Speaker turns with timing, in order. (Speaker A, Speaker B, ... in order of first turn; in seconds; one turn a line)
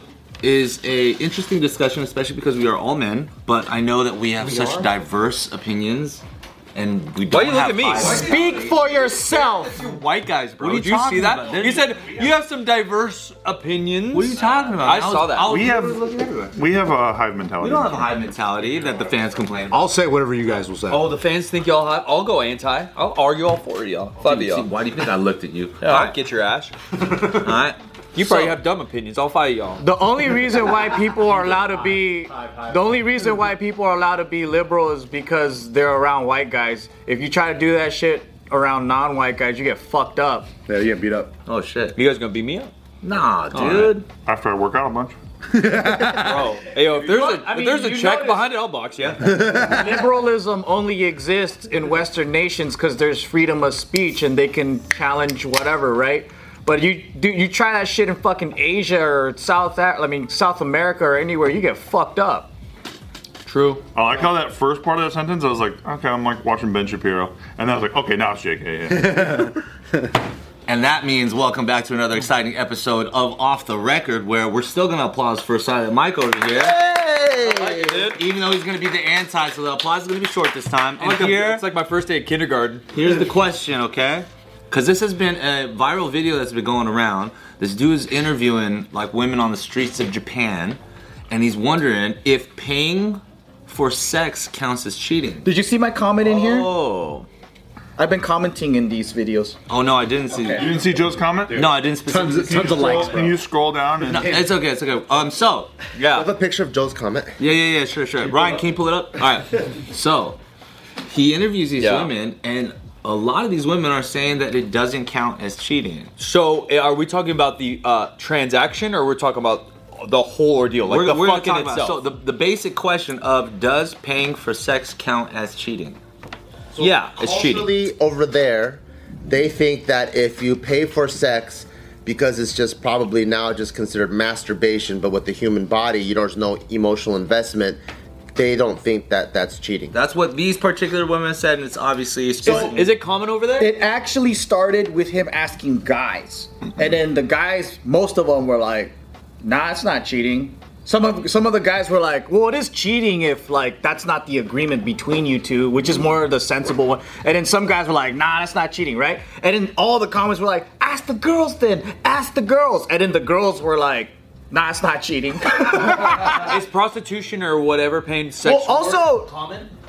Speaker A: 0.4-6.2
Speaker B: 4.5-4.8
Speaker A: 6.7-8.7
Speaker C: 7.3-8.1
Speaker B: 8.0-9.8
Speaker C: 9.1-15.6
Speaker A: 10.6-12.3
Speaker A: 14.1-16.5
Speaker D: 15.5-18.0
Speaker A: 17.6-19.9
Speaker E: 19.7-21.1
Speaker C: 20.9-24.7
Speaker A: 24.2-26.2
Speaker C: 25.8-26.8
Speaker A: 27.0-28.6
Speaker C: 28.1-29.8
Speaker B: 29.8-40.5
Speaker E: 32.5-32.7
Speaker E: 40.7-41.3
Speaker A: 41.5-42.0
Speaker C: 41.9-42.7
Speaker A: 43.0-44.0
Speaker C: 43.5-44.0
Speaker D: 44.2-45.2
Speaker E: 45.5-46.2
Speaker C: 46.2-49.4
Speaker B: 46.9-48.5
Speaker B: 49.3-62.5
Speaker E: 49.4-49.8
Speaker C: 63.4-63.8
Speaker D: 63.9-69.3
Speaker A: 70.7-76.8
Speaker F: 76.5-77.9
Speaker C: 77.4-78.1
Speaker A: 77.8-81.6
Speaker C: 80.9-82.8
Speaker A: 82.9-95.5
Speaker B: 95.4-96.7
Speaker A: 96.3-97.3
Speaker C: 96.6-97.0
Speaker B: 98.0-99.6
Speaker A: 99.7-100.7
Speaker D: 100.5-101.7
Speaker A: 101.5-103.2
Speaker E: 102.1-103.3
Speaker D: 102.4-104.5
Speaker A: 104.0-105.8
Speaker C: 105.9-106.3
Speaker F: 106.1-107.3
Speaker A: 107.4-110.4
Speaker A: 111.0-116.1
Speaker C: 111.7-112.1
Speaker C: 116.2-122.0
Speaker A: 120.8-126.0
Speaker F: 126.8-137.8
Speaker C: 126.8-127.7
Speaker F: 138.3-139.9
Speaker A: 139.9-142.9
Speaker B: 142.4-142.8
Speaker C: 142.4-143.7
Speaker B: 143.6-166.6
Speaker C: 166.1-169.7
Speaker B: 168.4-169.3